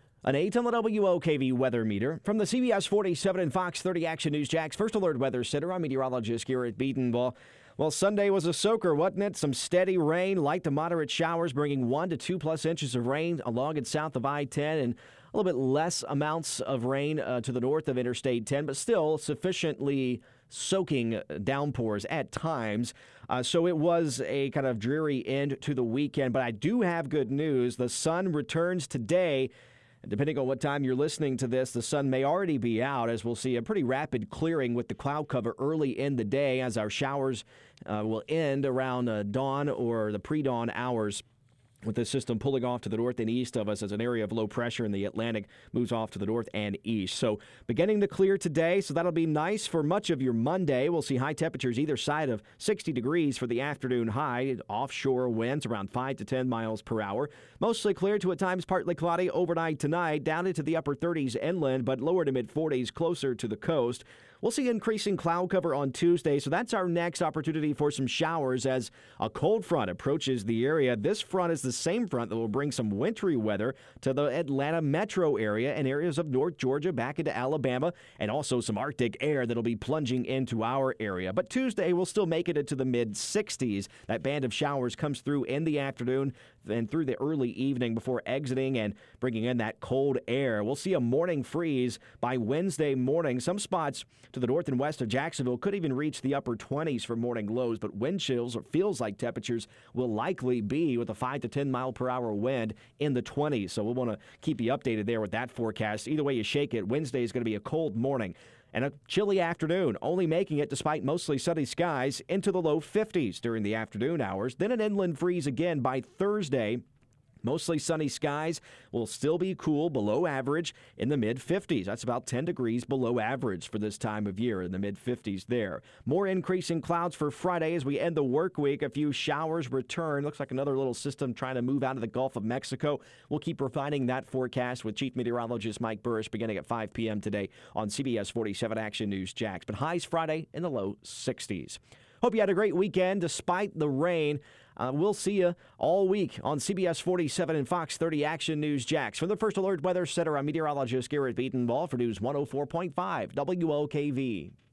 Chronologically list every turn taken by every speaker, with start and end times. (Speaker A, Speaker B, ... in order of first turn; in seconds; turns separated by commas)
Speaker A: 0.2-29.5, Speaker A: 30.0-41.2, Speaker A: 41.8-116.8, Speaker A: 117.4-154.5